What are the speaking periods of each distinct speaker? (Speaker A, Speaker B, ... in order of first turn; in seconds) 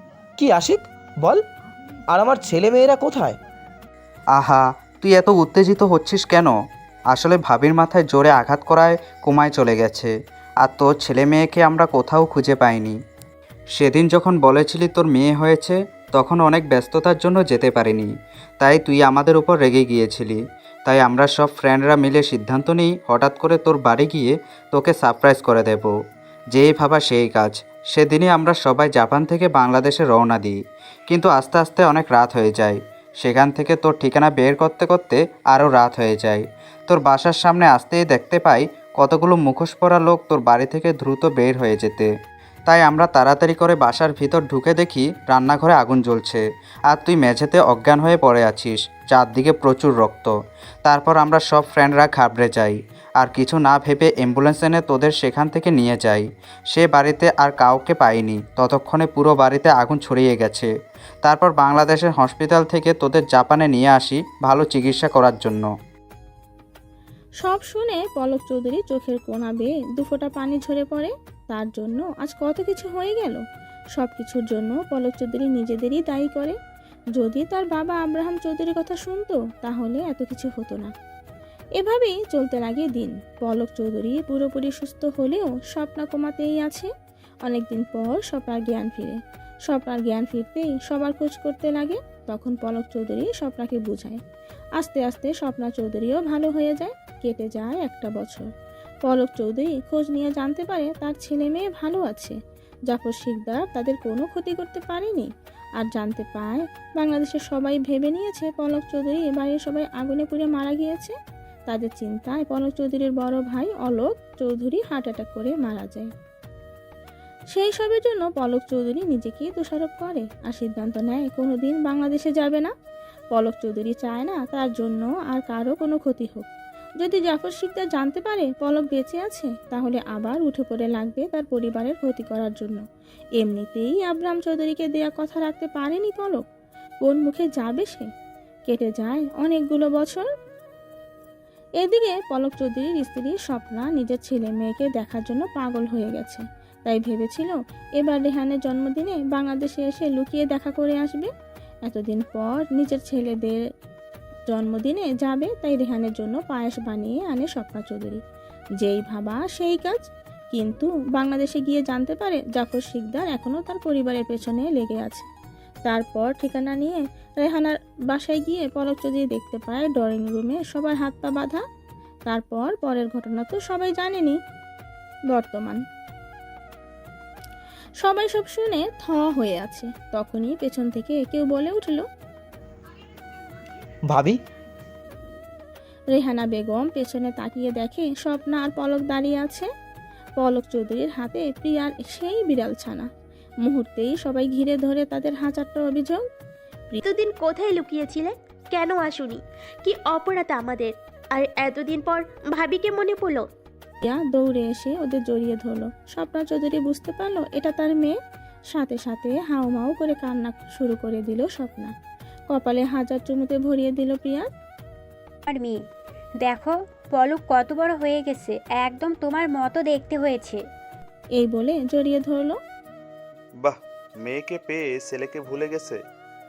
Speaker A: 0.4-1.4, 2.1-3.4, 184.1-184.4
Speaker B: 4.3-6.6, 7.1-13.0, 13.7-25.9, 26.5-30.6, 31.1-42.1, 42.7-50.3, 50.9-60.7, 61.2-65.7
Speaker C: 67.4-73.4, 74.0-76.5, 77.2-80.9, 81.8-86.9, 87.5-94.2, 94.8-98.5, 99.0-102.3, 102.9-111.1, 111.7-116.1, 117.5-122.7, 123.3-126.5, 127.0-132.8, 133.4-136.5, 137.0-138.1, 138.7-140.3, 141.8-151.3, 151.9-153.6, 154.5-158.2, 158.8-165.3, 165.9-171.6, 172.3-174.4, 175.3-175.8, 178.0-182.1, 186.1-189.7, 190.4-193.1, 193.7-196.2, 204.0-208.2, 208.7-211.9, 212.5-214.5, 221.4-222.6
Speaker D: 197.0-203.5
Speaker E: 215.5-215.8, 216.4-220.6
Speaker F: 223.6-226.0